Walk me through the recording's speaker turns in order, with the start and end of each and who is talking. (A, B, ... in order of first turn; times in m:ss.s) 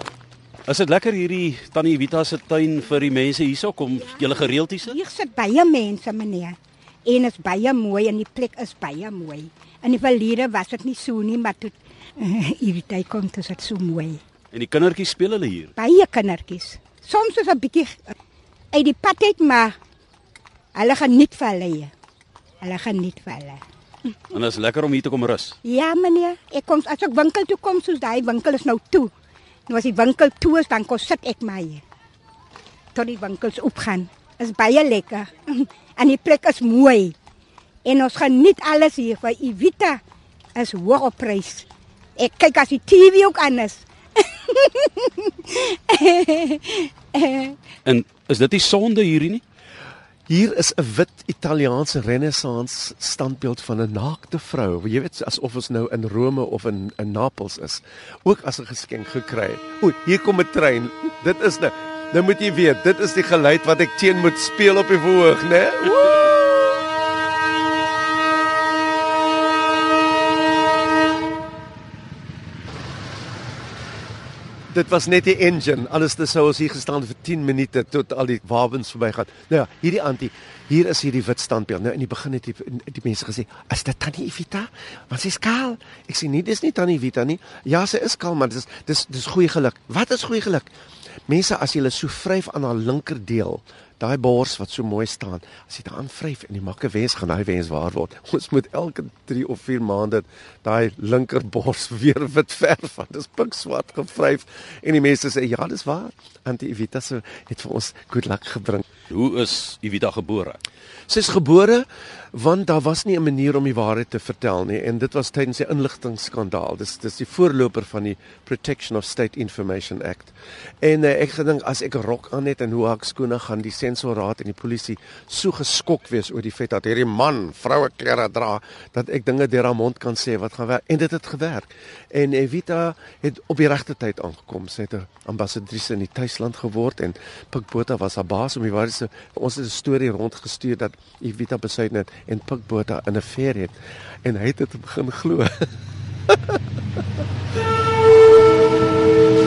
0:00.7-0:05.0 A
0:04.8-0:14.2 B
0:14.5-0:15.7 A
0:15.8-0:18.0 B
0:18.7-0:19.8 B
0:20.8-0:21.9 B
0:22.6-0:23.6 B
0:24.3-0:25.6 A
0:25.6-0:29.1 B
0:29.7-0:31.8 B
0:32.9-0:37.2 B
0:37.8-0:40.0 B
0:40.6-0:41.7 B
0:42.2-0:44.9 B
0:45.5-0:47.6 B
0:47.8-0:49.4 A
0:50.3-1:06.3 C
1:14.7-1:30.7 C
1:31.3-1:48.8 C
1:49.1-1:50.6 A
1:51.1-2:25.7 C
2:26.3-2:26.6 C